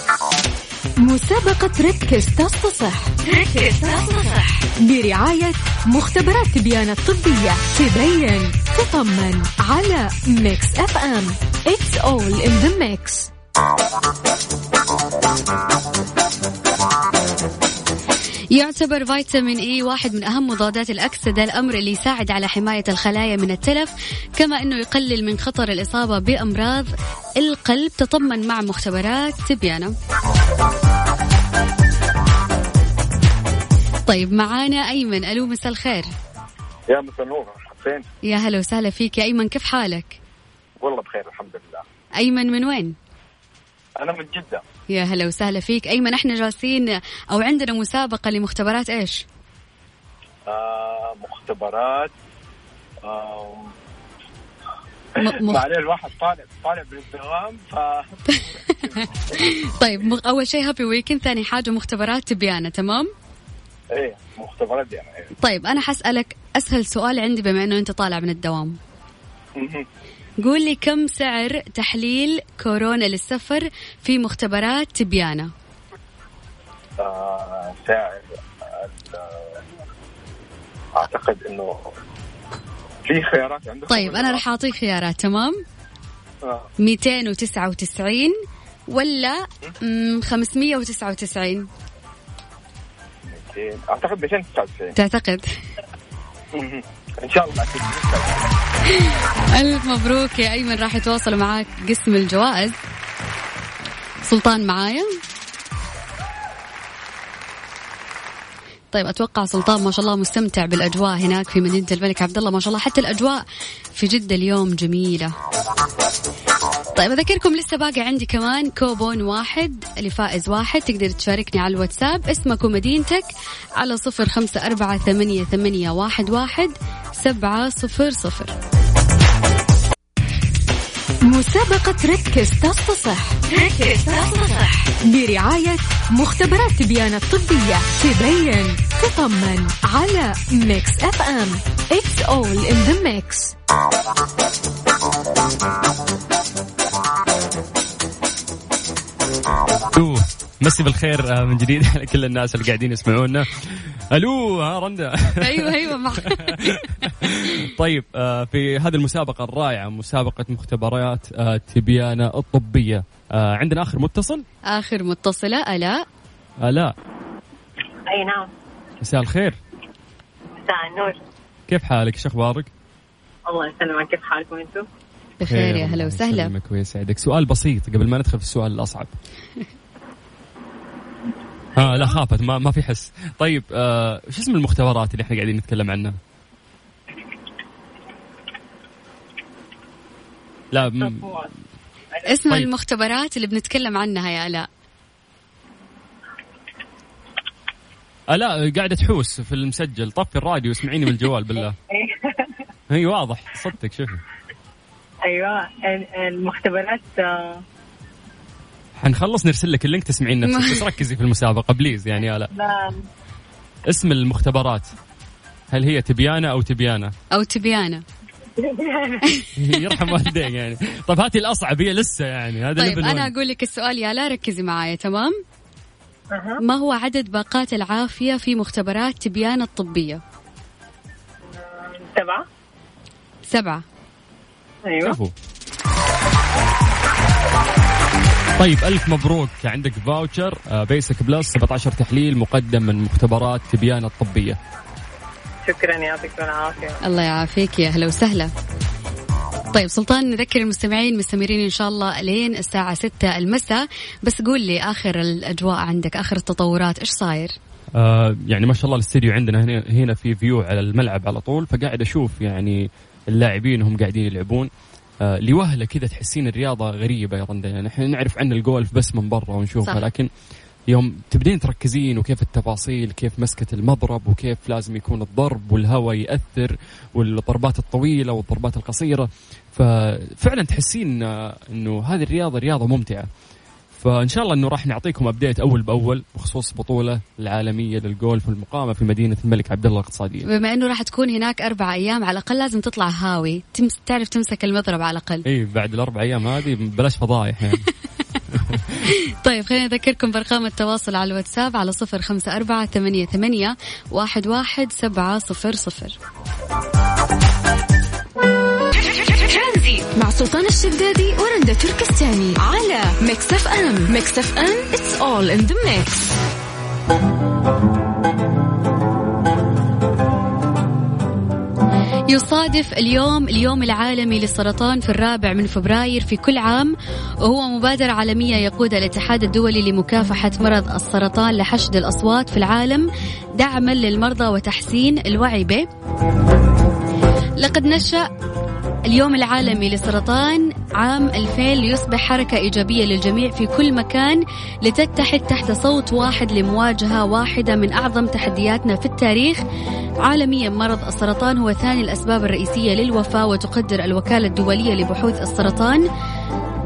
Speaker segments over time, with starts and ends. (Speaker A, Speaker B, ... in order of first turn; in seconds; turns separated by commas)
Speaker A: 1.0-13.3, Speaker B: 18.5-29.9, Speaker B: 34.1-36.1, Speaker C: 36.9-38.0, Speaker B: 38.2-40.2, Speaker C: 40.8-41.8, Speaker B: 42.2-42.9, Speaker C: 44.0-44.6, Speaker B: 44.9-49.2, Speaker C: 50.5-52.1, Speaker C: 53.0-53.7, Speaker C: 55.2-59.0, Speaker B: 55.2-55.6, Speaker B: 58.3-63.1, Speaker C: 63.9-65.3, Speaker B: 65.4-68.8, Speaker C: 69.5-69.8, Speaker B: 70.4-75.5, Speaker C: 77.0-79.6, Speaker C: 81.0-81.9, Speaker C: 83.0-84.4, Speaker B: 83.9-85.5, Speaker B: 86.8-88.3, Speaker B: 88.9-91.7, Speaker C: 93.3-94.9, Speaker B: 95.0-95.5, Speaker C: 96.5-98.4, Speaker B: 99.0-102.7, Speaker B: 104.2-105.0, Speaker B: 108.9-115.3, Speaker B: 117.0-128.5, Speaker A: 131.2-143.5, Speaker D: 149.9-164.4, Speaker B: 155.4-156.7, Speaker B: 164.7-166.0, Speaker D: 166.6-166.9, Speaker E: 168.1-168.5, Speaker D: 169.0-169.6, Speaker E: 170.6-171.2, Speaker D: 171.7-172.7, Speaker E: 173.5-174.8, Speaker B: 175.4-176.5, Speaker D: 175.4-179.1, Speaker D: 181.7-186.2, Speaker D: 190.7-191.5, Speaker E: 191.0-191.5, Speaker B: 192.3-194.7, Speaker D: 198.3-201.8, Speaker E: 201.9-202.6, Speaker D: 202.9-204.2, Speaker E: 205.2-207.6, Speaker D: 209.0-212.5, Speaker B: 210.5-210.8, Speaker E: 212.5-213.0, Speaker D: 213.9-214.9, Speaker D: 215.7-217.1, Speaker B: 217.3-218.0, Speaker E: 218.6-219.3, Speaker D: 219.6-223.3, Speaker B: 222.8-225.3, Speaker E: 226.3-226.6, Speaker B: 226.6-230.2, Speaker E: 231.6-232.4, Speaker B: 233.5-233.8, Speaker E: 234.8-235.2, Speaker D: 235.0-235.3, Speaker D: 238.6-244.6, Speaker E: 245.7-247.0, Speaker B: 247.0-248.5, Speaker B: 249.7-257.6, Speaker D: 257.9-264.7, Speaker D: 265.2-270.3, Speaker D: 270.9-283.2, Speaker D: 284.0-290.4, Speaker B: 290.4-295.4, Speaker D: 295.5-297.9, Speaker D: 298.5-299.0, Speaker B: 299.1-306.1, Speaker A: 309.1-316.4, Speaker B: 322.3-335.9, Speaker B: 337.6-338.3, Speaker B: 339.1-349.6, Speaker B: 350.2-356.0